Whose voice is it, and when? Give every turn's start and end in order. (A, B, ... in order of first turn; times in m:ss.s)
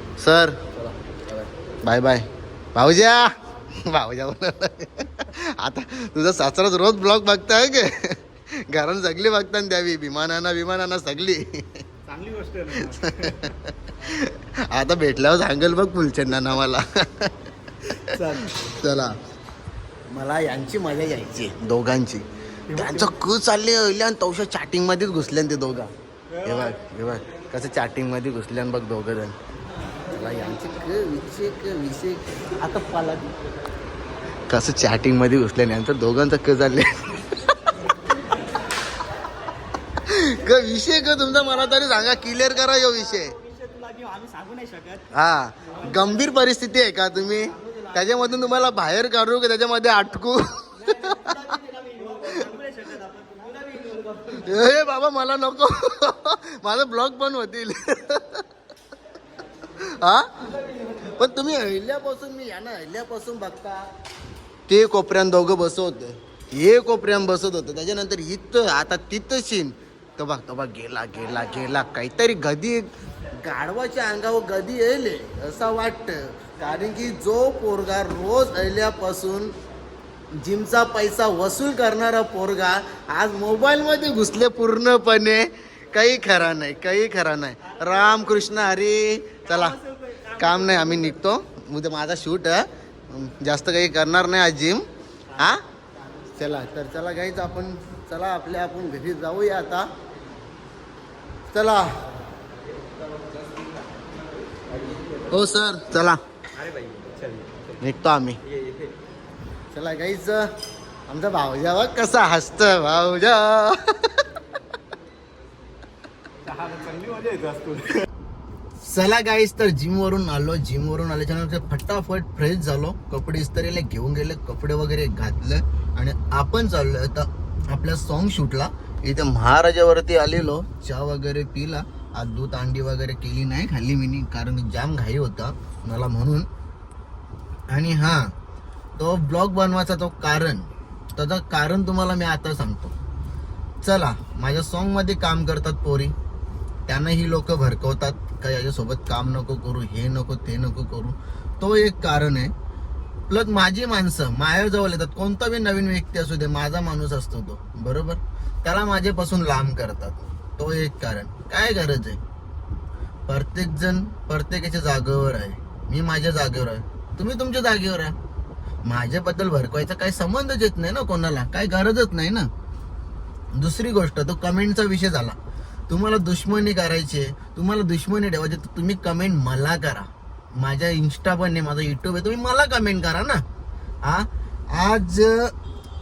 0:00.2-0:00.8 A
0:01.4-0:03.3 A
0:03.8-0:11.8 A
0:12.1-0:12.7 B
0:12.7-0:19.2 A
0:20.1-0:25.9 A
0:26.4-0:29.4 A
0:30.1-0:33.3 A
0:34.5-0:37.7 A
0:40.0-0:43.4 A
0:45.1-0:51.6 A
0:52.1-0:52.7 A
0:54.2-0:58.4 A
0:59.8-1:00.4 A
1:01.0-1:03.9 A
1:04.7-1:19.5 A
1:20.4-1:35.6 A
1:36.4-1:39.9 A
1:41.5-1:42.0 A
1:44.7-1:45.2 B
1:45.3-1:46.2 A
1:46.6-1:47.8 B
1:47.8-1:48.4 A
1:48.4-1:49.0 B
1:49.7-1:50.5 A
1:51.1-1:54.2 A
1:56.5-1:58.0 B
1:58.8-2:16.5 A
2:17.7-2:18.3 A
2:19.0-2:22.9 A
2:23.8-2:26.2 A
2:26.9-2:32.5 A
2:33.3-2:42.2 A
2:43.3-2:48.2 A
2:48.8-2:52.5 A
2:53.5-2:55.4 A
2:55.9-3:03.4 A
3:04.0-3:05.5 A